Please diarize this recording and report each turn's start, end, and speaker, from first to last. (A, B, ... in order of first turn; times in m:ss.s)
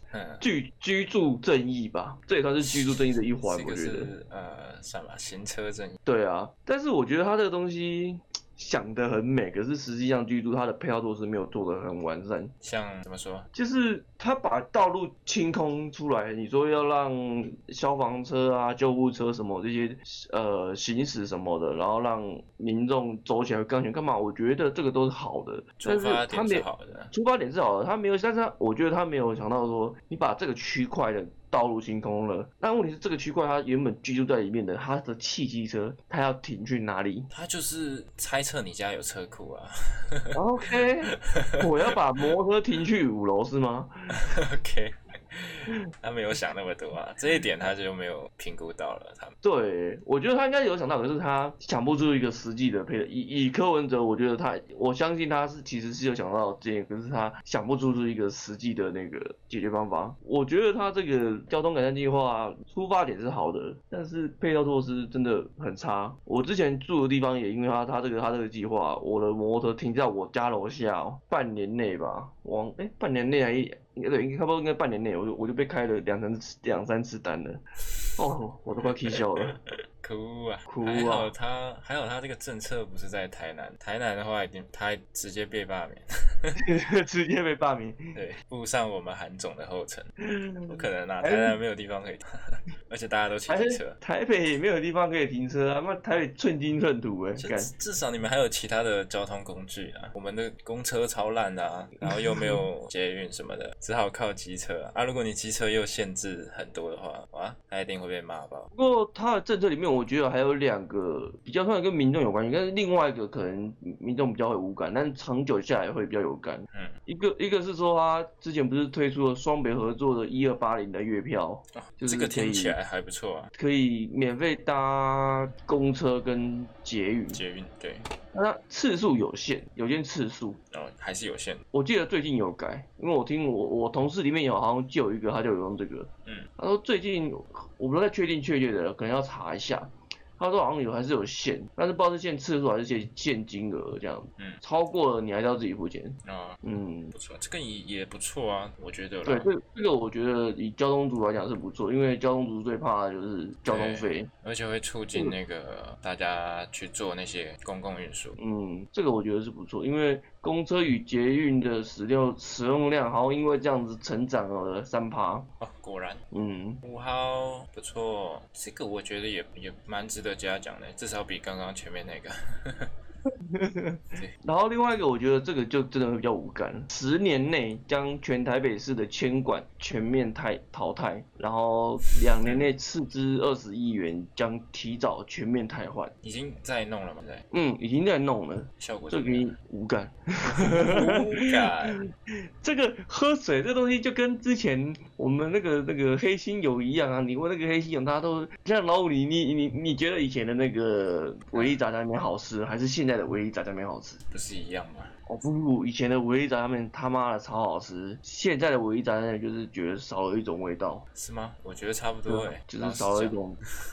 0:00.1-0:00.4 A
0:00.4-0:04.1 B
0:02.6-0:06.0 A
0:06.0-0:12.5 B
0:12.6-0:13.5 A
0:13.5-0:37.3 B
0:25.8-0:27.1 A
0:37.3-0:42.0 A
0:40.3-0:44.1 B
0:44.1-0:49.3 A
0:49.4-1:17.6 B
1:18.2-1:19.6 B
1:18.8-1:26.6 A
1:20.7-1:21.3 B
1:26.6-1:28.1 B
1:28.1-1:30.1 A
1:30.2-1:31.6 B
1:30.7-1:34.0 A
1:33.5-1:37.7 B
1:37.4-1:48.7 A
1:42.0-1:42.6 B
1:48.7-2:02.8 B
2:01.7-2:03.5 A
2:03.5-2:07.4 B
2:07.3-2:08.0 A
2:08.3-2:10.6 B
2:10.7-2:11.6 A
2:11.7-2:27.1 B
2:26.2-2:26.6 A
2:27.1-2:29.5 A
2:29.2-2:34.3 B
2:33.7-2:38.4 A
2:38.4-2:45.5 B
2:45.6-2:46.2 A
2:46.3-2:46.8 B
2:46.8-2:52.9 A
2:53.3-3:06.1 B
3:02.4-3:02.7 A
3:06.2-3:07.4 A
3:07.5-3:24.2 B
3:08.8-3:09.5 A
3:10.5-3:12.0 A
3:21.5-3:21.8 A
3:24.3-3:25.1 A
3:25.3-3:31.0 B
3:31.1-3:33.4 A
3:32.3-3:33.6 B